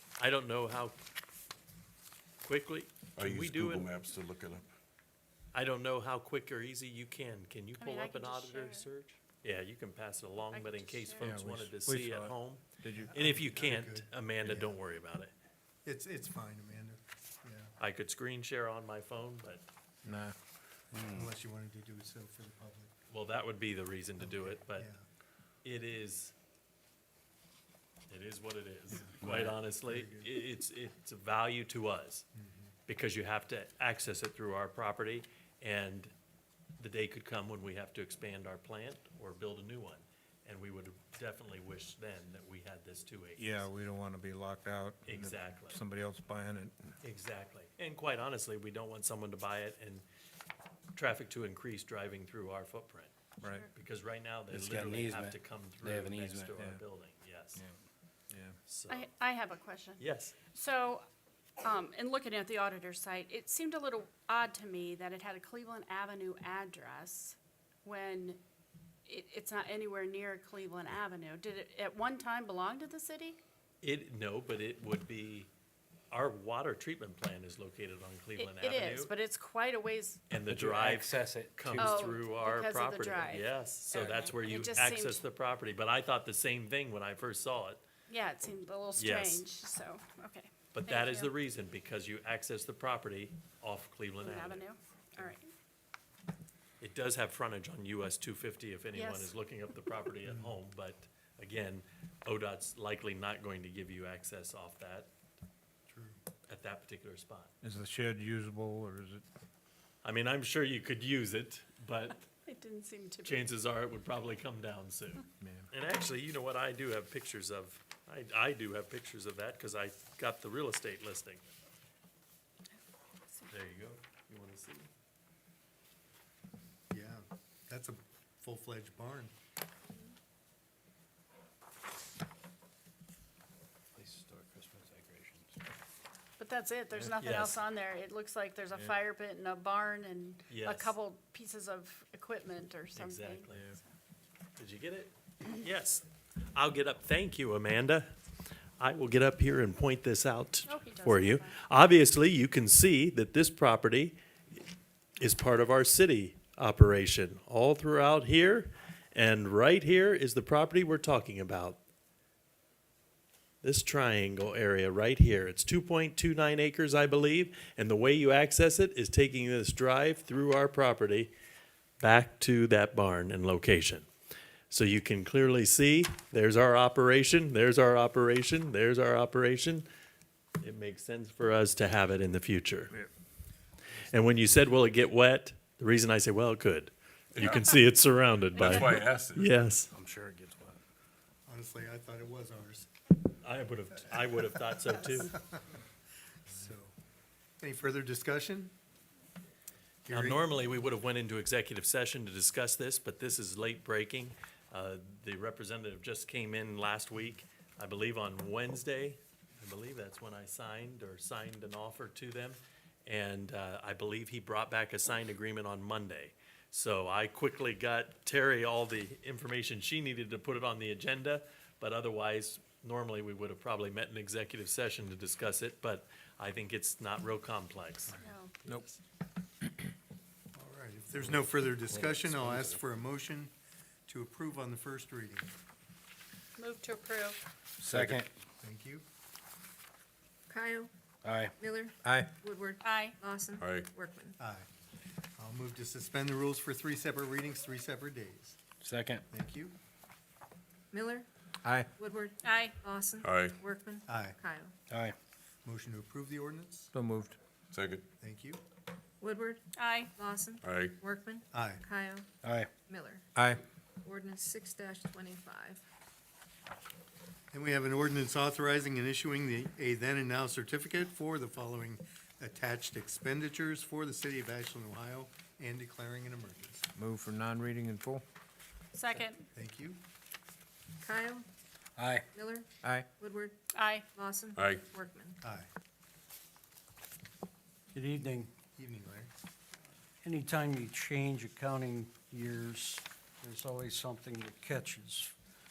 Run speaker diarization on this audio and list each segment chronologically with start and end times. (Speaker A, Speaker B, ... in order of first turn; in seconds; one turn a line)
Speaker A: 0.2-1.0
Speaker A: 2.4-3.9
Speaker B: 3.2-4.7
Speaker A: 5.5-12.6
Speaker C: 7.8-8.9
Speaker C: 10.5-11.3
Speaker D: 11.2-13.2
Speaker E: 13.0-14.8
Speaker A: 13.1-15.3
Speaker E: 15.8-17.7
Speaker A: 17.8-19.6
Speaker E: 20.0-20.3
Speaker D: 20.1-20.4
Speaker F: 20.9-21.2
Speaker E: 21.1-22.9
Speaker A: 23.1-24.9
Speaker E: 24.2-25.0
Speaker A: 25.6-26.3
Speaker A: 28.1-32.2
Speaker E: 28.9-30.3
Speaker E: 32.4-32.7
Speaker A: 32.9-36.1
Speaker A: 36.8-43.7
Speaker D: 43.4-46.9
Speaker A: 45.0-45.8
Speaker A: 47.0-50.0
Speaker A: 51.0-53.1
Speaker C: 53.4-53.7
Speaker A: 53.7-57.6
Speaker F: 54.5-56.5
Speaker D: 56.5-56.8
Speaker D: 58.3-58.6
Speaker A: 58.7-59.1
Speaker C: 58.9-60.0
Speaker A: 60.0-60.4
Speaker C: 60.5-61.1
Speaker C: 61.6-68.4
Speaker C: 69.1-73.4
Speaker A: 73.8-75.5
Speaker A: 76.1-79.1
Speaker C: 78.4-80.2
Speaker A: 80.3-87.8
Speaker F: 80.5-81.6
Speaker D: 81.7-81.9
Speaker C: 81.8-85.2
Speaker C: 88.1-91.3
Speaker A: 89.0-89.4
Speaker A: 90.7-95.3
Speaker C: 94.2-95.5
Speaker A: 96.8-105.1
Speaker C: 98.9-99.3
Speaker E: 100.3-100.5
Speaker E: 105.9-106.2
Speaker A: 106.5-107.5
Speaker D: 107.6-109.2
Speaker A: 110.0-112.2
Speaker C: 112.5-113.5
Speaker A: 113.2-121.4
Speaker D: 115.4-115.7
Speaker A: 123.5-124.9
Speaker E: 126.9-129.3
Speaker F: 134.0-135.2
Speaker C: 136.4-143.9
Speaker A: 137.2-137.6
Speaker A: 140.5-140.9
Speaker A: 142.9-143.7
Speaker A: 144.6-148.1
Speaker A: 148.8-154.2
Speaker C: 150.7-151.6
Speaker A: 155.2-161.8
Speaker A: 163.6-171.3
Speaker A: 172.0-174.1
Speaker A: 174.7-179.9
Speaker A: 180.6-182.9
Speaker A: 184.1-189.9
Speaker B: 187.4-187.8
Speaker B: 188.6-189.6
Speaker F: 189.9-190.8
Speaker E: 191.5-192.9
Speaker A: 193.4-195.3
Speaker E: 195.1-195.8
Speaker E: 196.5-196.9
Speaker E: 197.6-198.7
Speaker E: 200.1-200.5
Speaker A: 200.1-228.9
Speaker E: 228.1-228.3
Speaker C: 228.2-228.5
Speaker E: 230.5-233.5
Speaker E: 234.1-235.5
Speaker C: 236.6-237.4
Speaker D: 237.8-238.1
Speaker E: 237.9-239.0
Speaker F: 238.0-238.3
Speaker G: 240.5-240.9
Speaker F: 241.2-241.5
Speaker G: 241.6-244.3
Speaker D: 242.0-242.3
Speaker C: 242.8-243.2
Speaker B: 243.6-243.9
Speaker E: 244.4-244.7
Speaker E: 245.4-248.6
Speaker F: 248.8-249.2
Speaker E: 249.3-249.8
Speaker G: 250.9-251.2
Speaker D: 251.7-251.9
Speaker G: 252.0-254.7
Speaker C: 252.4-252.8
Speaker B: 253.2-253.6
Speaker E: 254.1-254.4
Speaker F: 254.9-255.2
Speaker E: 255.6-256.9
Speaker D: 256.9-257.4
Speaker B: 257.7-258.1
Speaker E: 258.2-258.6
Speaker G: 259.2-259.6
Speaker C: 259.8-260.1
Speaker G: 260.2-262.2
Speaker B: 260.6-261.0
Speaker E: 261.5-261.9
Speaker F: 262.4-262.7
Speaker G: 262.9-263.2
Speaker D: 263.4-263.6
Speaker G: 264.1-265.8
Speaker E: 267.5-276.9
Speaker D: 277.0-278.2
Speaker C: 278.9-279.4
Speaker E: 279.5-280.0
Speaker G: 281.0-281.4
Speaker F: 282.0-282.3
Speaker G: 282.4-282.7
Speaker D: 282.8-283.1
Speaker G: 283.2-283.5
Speaker C: 283.8-284.1
Speaker G: 284.2-285.3
Speaker B: 284.6-284.8
Speaker E: 285.4-285.7
Speaker H: 287.9-288.5
Speaker E: 288.8-289.3
Speaker H: 290.2-295.3